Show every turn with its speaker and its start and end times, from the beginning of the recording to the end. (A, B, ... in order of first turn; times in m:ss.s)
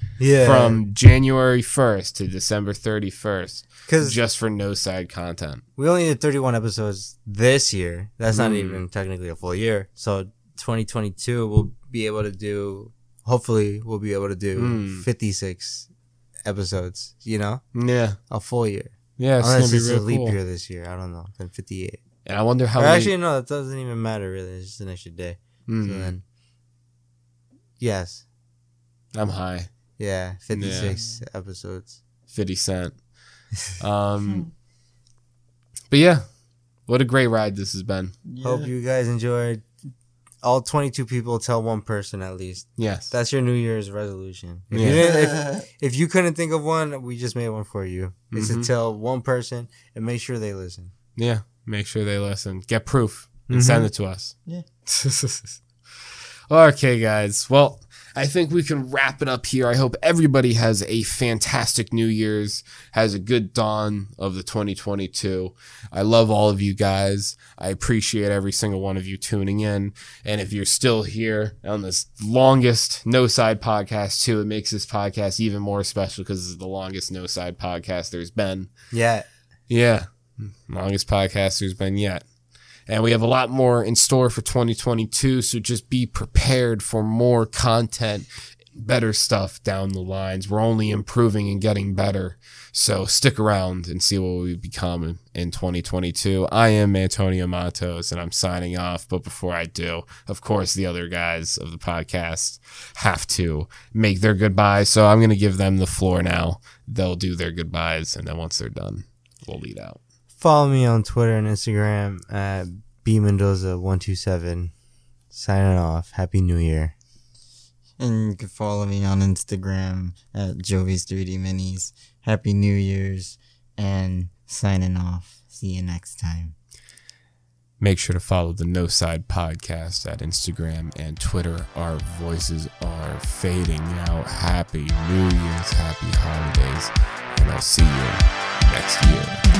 0:00.2-0:00.8 A
0:00.4-0:05.6 B
0:03.9-0:04.2 A
0:05.8-0:15.9 A
0:08.3-0:08.8 B
0:14.6-0:15.0 B
0:16.4-0:17.6 A
0:17.7-0:18.2 B
0:18.3-0:22.0 A
0:19.2-0:20.4 B
0:22.2-0:23.1 B
0:22.8-0:26.2 A
0:25.7-0:26.1 B
0:27.8-0:28.2 A
0:29.1-0:29.7 B
0:30.0-0:32.0 A
0:30.5-0:30.9 B
0:30.7-0:31.2 C
0:32.3-0:33.0 B
0:33.8-0:34.5 B
0:35.9-0:36.2 B
0:36.9-0:38.1 B
0:38.2-0:38.7 C
0:38.4-0:39.6 A
0:40.4-0:50.9 A
0:42.8-0:43.1 B
0:44.7-0:45.0 B
0:44.8-0:45.6 C
0:48.3-0:48.7 B
0:51.2-0:54.3 B
0:53.5-0:53.9 A
0:54.9-0:55.6 B
0:56.5-1:18.7 B
1:18.9-1:19.2 A
1:19.7-1:22.2 B
1:22.9-1:50.0 B
1:50.4-1:54.7 A
1:55.3-1:56.9 A
1:58.0-2:06.5 C
2:07.8-2:19.4 B